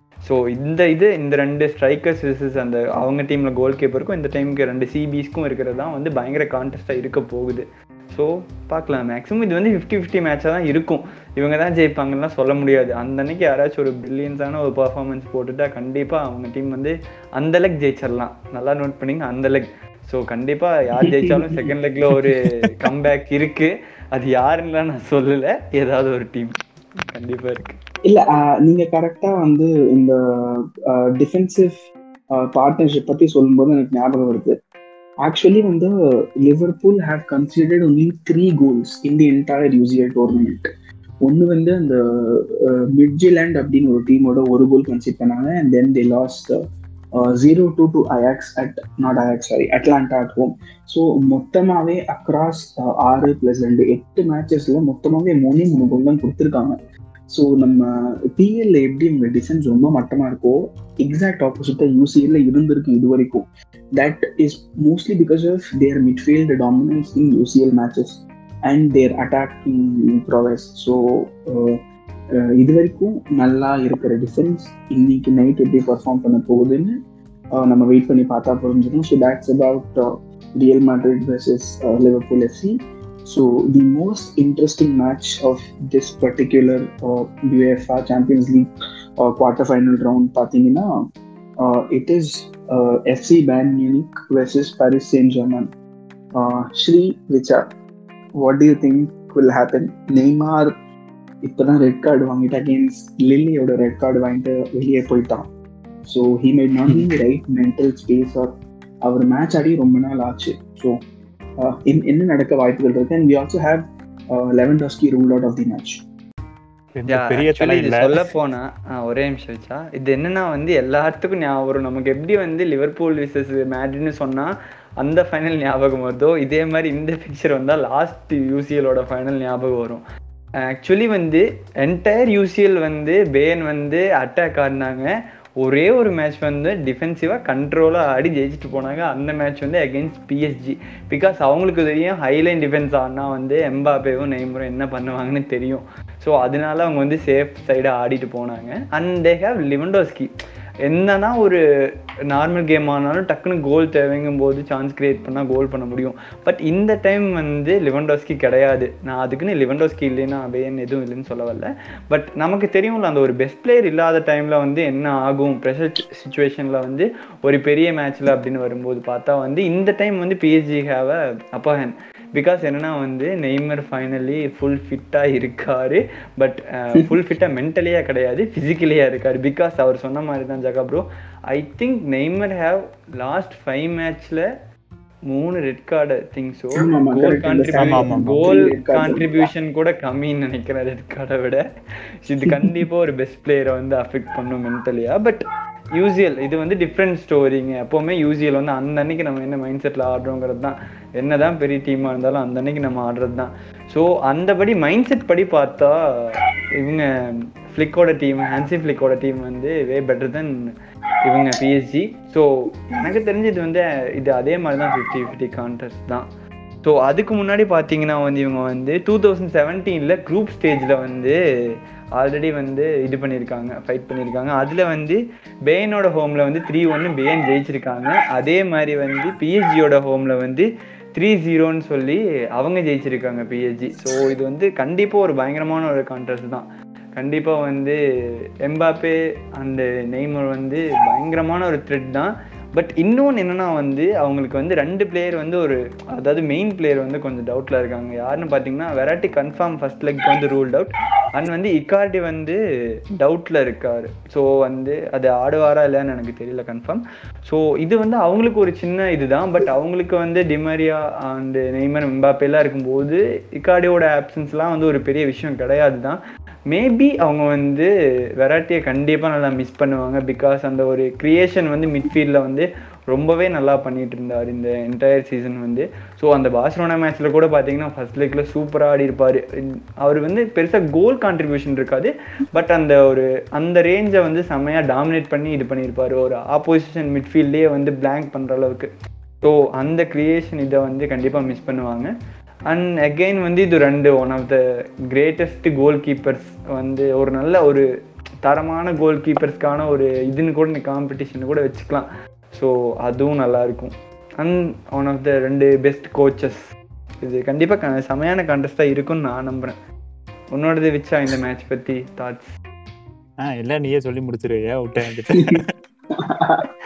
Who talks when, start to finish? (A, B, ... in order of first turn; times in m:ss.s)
0:00.2-0:26.5 A
0:21.0-0:21.7 B
0:27.1-0:27.8 A
0:28.0-0:31.8 B
0:32.3-0:34.6 B
0:35.2-0:40.7 B
0:41.2-0:46.6 B
0:47.2-0:56.8 B
0:57.3-1:11.8 B
1:12.4-1:17.0 B
1:17.5-1:30.9 B
1:31.6-1:35.7 B
1:36.4-1:37.6 B
1:38.4-1:40.7 B
1:41.4-1:45.5 B
1:46.0-1:51.0 B
1:51.6-1:56.0 B
1:56.9-1:58.2 C
1:57.1-2:10.0 A
2:10.7-2:15.1 A
2:15.6-2:30.3 A
2:30.8-2:31.6 A
2:32.3-3:04.4 A
3:05.3-3:11.6 A
3:06.8-3:09.5 B
3:07.8-3:08.4 C
3:12.2-3:15.4 A
3:12.4-3:12.8 B
3:15.9-3:27.1 A
3:27.7-3:30.5 A
3:31.2-3:36.2 A
3:36.8-3:41.4 A
3:42.2-3:56.6 A
3:57.2-3:58.0 A
3:58.6-4:12.6 A
4:13.2-4:26.2 A
4:26.7-4:39.4 A
4:40.0-4:48.9 A
4:49.4-4:52.1 A
4:52.7-4:54.6 A
4:55.1-4:57.8 A
4:58.4-5:06.6 A
5:07.2-5:09.7 A
5:10.5-5:12.5 A
5:13.4-5:15.7 C
5:16.1-5:16.7 B